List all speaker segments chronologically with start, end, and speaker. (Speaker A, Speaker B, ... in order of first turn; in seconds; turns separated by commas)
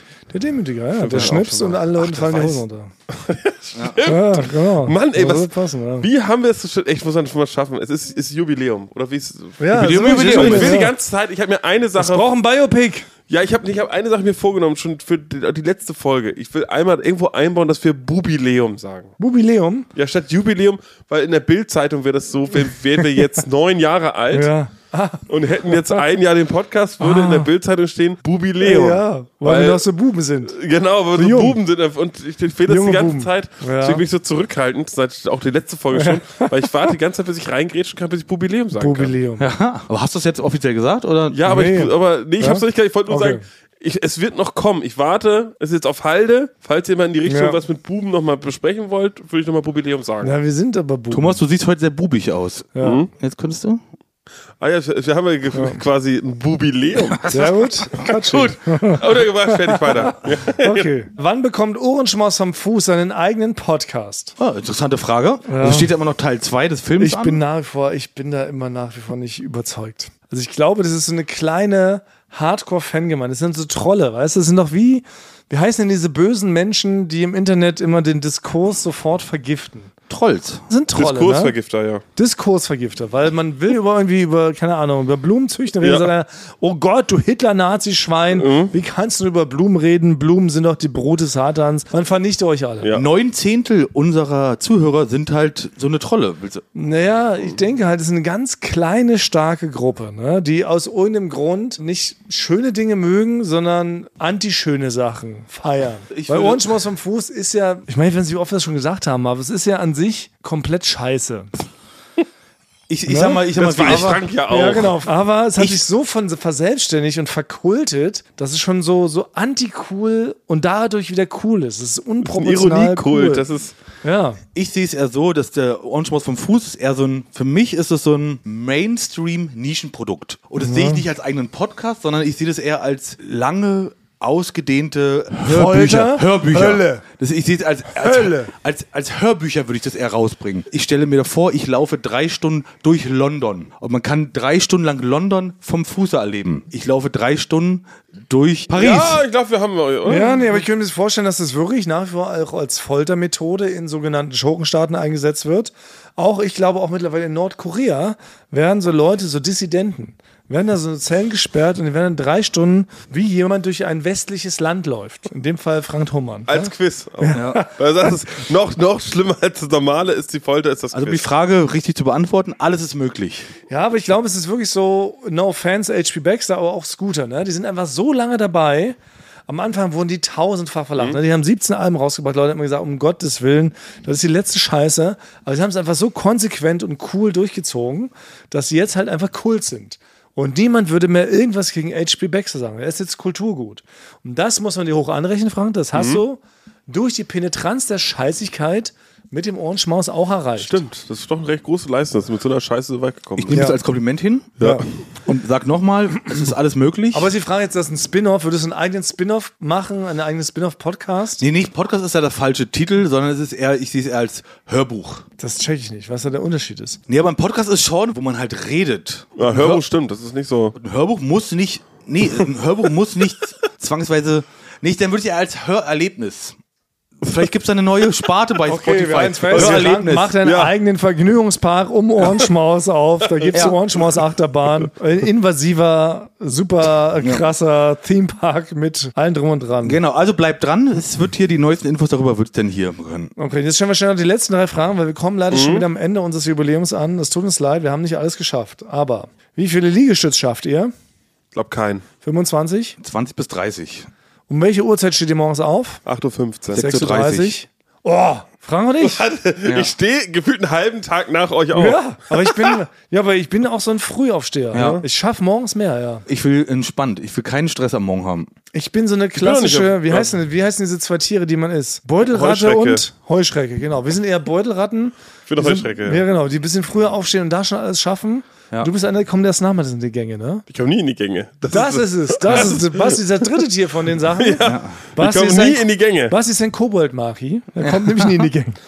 Speaker A: 0.3-2.9, Speaker B: 1.1-1.4, Speaker C: 1.1-2.6, Speaker B: 3.1-12.3, Speaker C: 3.8-4.0, Speaker A: 4.0-6.1, Speaker A: 9.6-10.9, Speaker C: 9.7-10.8, Speaker A: 12.0-13.1, Speaker B: 13.3-19.1, Speaker A: 19.2-19.9, Speaker B: 19.9-24.5, Speaker A: 24.3-26.0, Speaker B: 25.3-29.9, Speaker A: 27.0-27.5, Speaker A: 28.6-30.6, Speaker B: 30.5-39.1, Speaker A: 31.1-31.6, Speaker A: 32.7-34.0, Speaker A: 35.9-36.5, Speaker A: 38.8-39.5, Speaker C: 39.4-41.4, Speaker B: 41.3-50.3, Speaker A: 41.5-43.4, Speaker A: 47.3-47.6, Speaker A: 50.2-51.4, Speaker C: 51.1-53.8, Speaker A: 52.8-53.0, Speaker B: 52.8-53.1, Speaker B: 54.6-60.9, Speaker A: 57.3-64.3, Speaker C: 64.4-67.4, Speaker A: 65.5-65.9, Speaker A: 67.0-79.9, Speaker C: 80.1-80.6, Speaker A: 80.7-81.5, Speaker B: 81.0-82.0, Speaker A: 82.2-92.9, Speaker B: 85.8-86.1, Speaker B: 88.3-88.7, Speaker C: 92.9-96.6, Speaker A: 96.8-111.5, Speaker C: 106.1-106.7, Speaker C: 112.9-114.2, Speaker A: 113.1-123.5, Speaker B: 113.5-115.0, Speaker B: 122.2-123.7, Speaker A: 124.0-124.4, Speaker C: 124.5-149.2, Speaker A: 130.6-131.1, Speaker A: 135.4-137.0, Speaker A: 137.9-138.5, Speaker B: 148.7-150.6, Speaker A: 150.1-168.1, Speaker B: 166.5-171.3, Speaker C: 167.3-167.6, Speaker C: 170.9-173.5, Speaker A: 173.7-200.8, Speaker B: 195.9-196.2, Speaker B: 200.6-203.6, Speaker C: 203.4-204.6, Speaker A: 203.5-203.8, Speaker B: 204.6-204.8, Speaker C: 205.2-207.3, Speaker A: 207.1-211.4, Speaker C: 211.4-215.2, Speaker A: 215.4-217.0, Speaker C: 217.1-219.8, Speaker B: 219.4-220.8, Speaker C: 220.8-226.6, Speaker C: 227.2-230.3, Speaker A: 228.7-240.0, Speaker B: 230.4-230.7, Speaker B: 233.4-234.1, Speaker C: 239.8-243.3, Speaker A: 243.4-250.9, Speaker B: 245.5-245.9, Speaker B: 251.5-252.1, Speaker A: 252.2-253.0, Speaker C: 253.0-254.1, Speaker A: 254.5-256.0, Speaker B: 256.1-256.8, Speaker A: 256.7-259.2, Speaker C: 256.8-257.6, Speaker B: 259.0-262.8, Speaker C: 259.6-259.9, Speaker A: 261.7-266.2, Speaker C: 264.7-265.0, Speaker B: 264.7-265.1, Speaker C: 266.3-268.5, Speaker A: 268.7-280.6, Speaker B: 269.4-270.3, Speaker B: 272.3-273.1, Speaker B: 275.5-276.2, Speaker B: 280.7-283.7, Speaker A: 281.7-288.8, Speaker C: 282.5-282.7, Speaker B: 284.2-286.3, Speaker C: 284.6-285.0, Speaker C: 287.8-288.3